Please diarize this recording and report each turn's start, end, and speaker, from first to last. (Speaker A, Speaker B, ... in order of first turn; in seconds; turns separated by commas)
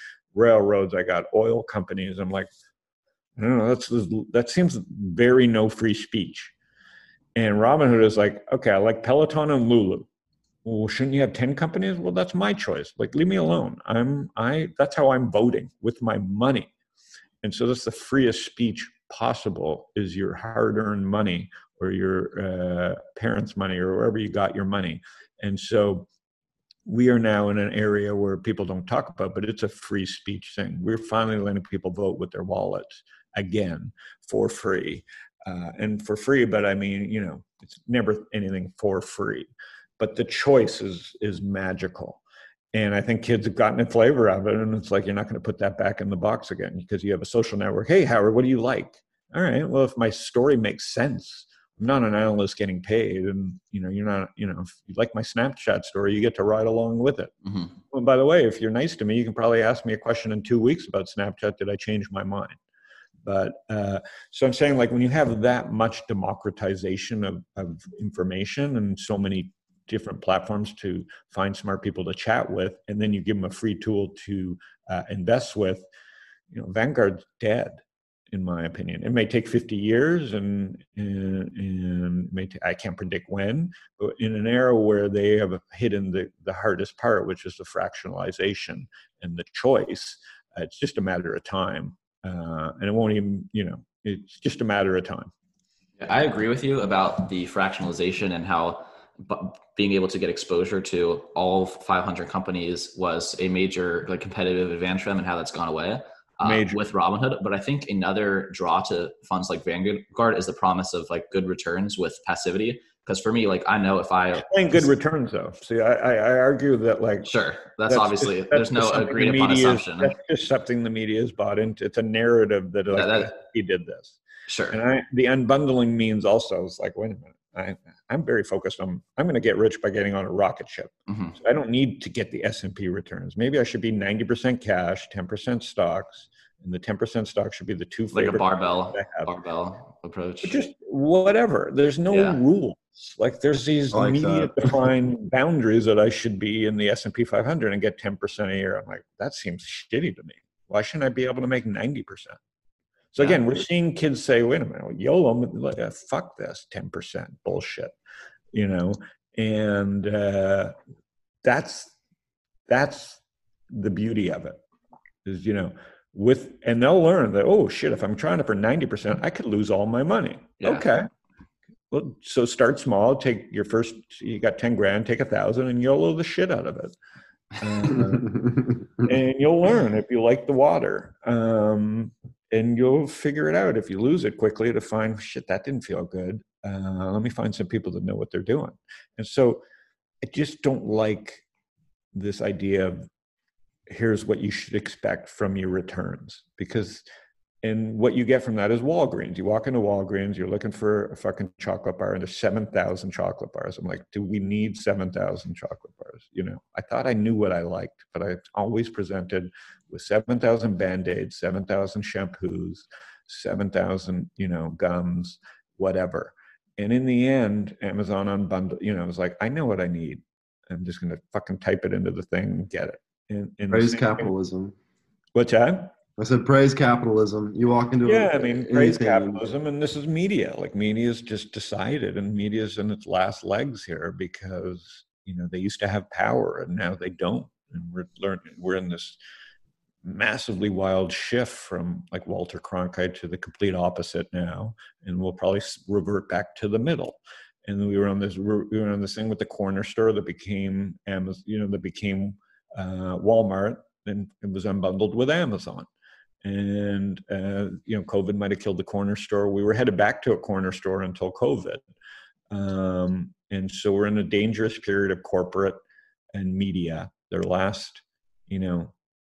Speaker A: 0.3-2.5, Speaker A: 3.4-6.5, Speaker A: 7.4-10.1, Speaker A: 10.6-16.7, Speaker A: 17.4-26.1, Speaker A: 26.9-42.2, Speaker A: 42.7-57.3, Speaker B: 57.5-57.7, Speaker A: 57.9-62.6, Speaker A: 63.2-75.8, Speaker A: 76.5-95.3, Speaker B: 96.0-114.6, Speaker A: 106.4-106.8, Speaker A: 114.4-117.3, Speaker B: 117.2-120.1, Speaker A: 117.9-124.2, Speaker B: 122.9-123.3, Speaker B: 124.5-124.8, Speaker A: 124.7-139.3, Speaker B: 131.1-131.3, Speaker B: 138.1-140.6, Speaker A: 140.4-152.4, Speaker B: 142.1-142.4, Speaker C: 143.9-144.8, Speaker A: 153.1-157.9, Speaker B: 153.2-153.5, Speaker A: 158.5-160.8, Speaker A: 161.4-161.9, Speaker A: 162.7-164.6, Speaker A: 165.2-171.1, Speaker A: 171.9-176.9, Speaker A: 177.6-178.3, Speaker C: 177.9-178.7, Speaker A: 179.0-189.6, Speaker A: 190.2-191.4, Speaker A: 192.1-193.1, Speaker A: 193.9-197.1, Speaker A: 197.6-224.3, Speaker C: 223.7-224.8, Speaker A: 225.3-225.9, Speaker C: 226.2-229.4, Speaker A: 228.0-239.2, Speaker A: 240.0-255.9, Speaker A: 256.4-261.9, Speaker A: 262.5-265.8, Speaker A: 266.3-268.9